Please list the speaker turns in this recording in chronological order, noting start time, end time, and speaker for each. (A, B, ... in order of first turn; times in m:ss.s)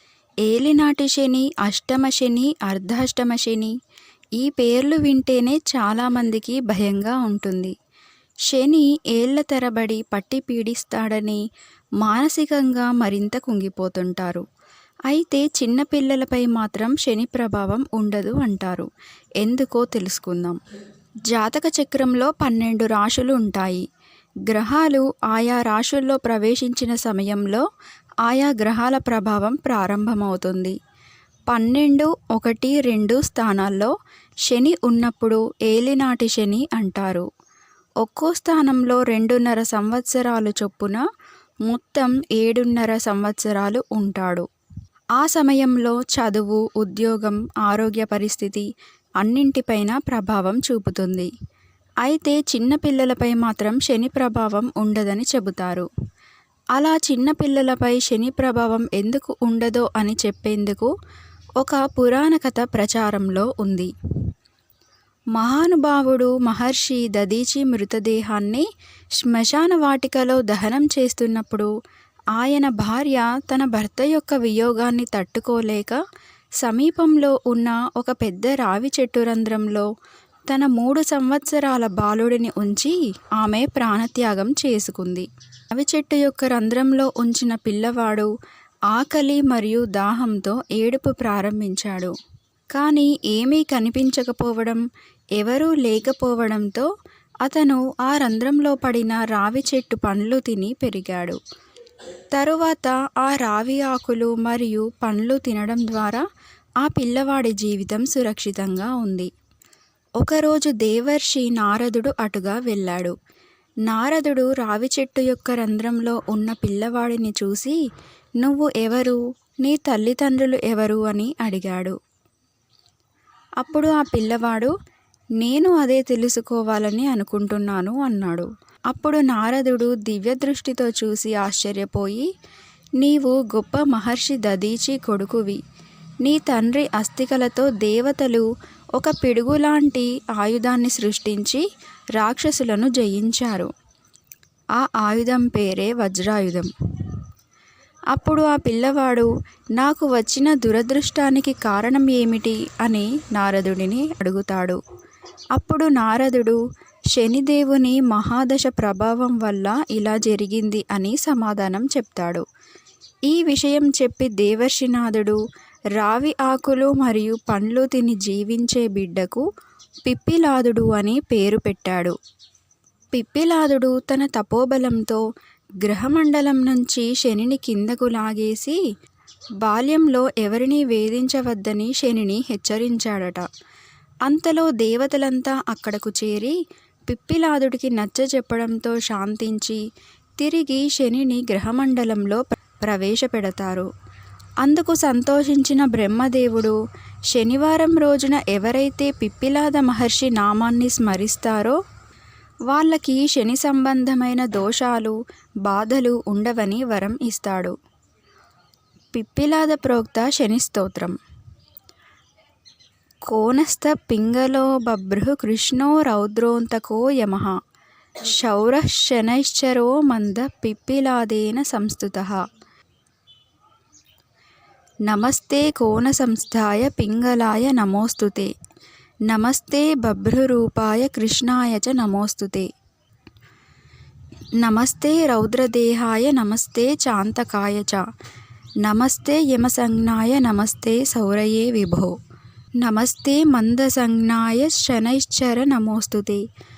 0:00.4-0:03.7 A
0:04.4-0:07.7 A
0:08.5-0:11.4 A
0:12.0-0:14.4 A
0:15.1-0:18.9 A
0:19.4-0:20.6 A
0:21.3-0:23.8 A
0:24.5-0:27.6 A
0:28.2-0:30.8 A
0:31.5-0:33.9 A
0:34.4-0:37.2 A
0:38.0-0:41.0 A
0:41.7-0:44.4 A
0:45.2-0:48.7 A
0:49.2-0:51.3 A
0:52.0-0:55.9 A
0:56.8-1:00.9 A
1:01.6-1:03.9 A
1:05.3-1:08.6 A
1:09.2-1:11.7 A
1:12.3-1:16.0 A
1:16.6-1:19.9 A
1:20.5-1:28.3 A
1:28.9-1:32.1 A
1:32.7-1:34.8 A
1:35.4-1:36.9 A
1:37.4-1:41.4 A
1:42.3-1:46.2 A
1:46.8-1:49.3 A
1:50.2-1:53.2 A
1:53.9-1:57.8 A
1:58.4-2:02.0 A
2:03.6-2:04.7 A
2:05.4-2:12.3 A
2:13.0-2:15.6 A
2:16.2-2:21.6 A
2:22.2-2:23.7 A
2:24.8-2:27.1 A
2:28.1-2:34.8 A
2:35.5-2:36.6 A
2:37.1-2:42.4 A
2:43.3-2:45.4 A
2:46.0-2:49.4 A
2:50.0-2:52.1 A
2:53.1-2:55.2 A
2:55.8-2:58.8 A
2:59.6-3:03.4 A
3:04.2-3:06.5 A
3:07.1-3:09.8 A
3:10.4-3:13.9 A
3:14.6-3:16.8 A
3:17.3-3:21.8 A
3:22.7-3:27.7 A
3:29.1-3:31.2 A
3:33.3-3:37.5 A
3:38.2-3:42.4 A
3:45.1-3:48.5 A
3:49.3-3:52.7 A
3:54.6-3:58.0 A
3:58.8-4:02.1 A
4:02.8-4:06.4 A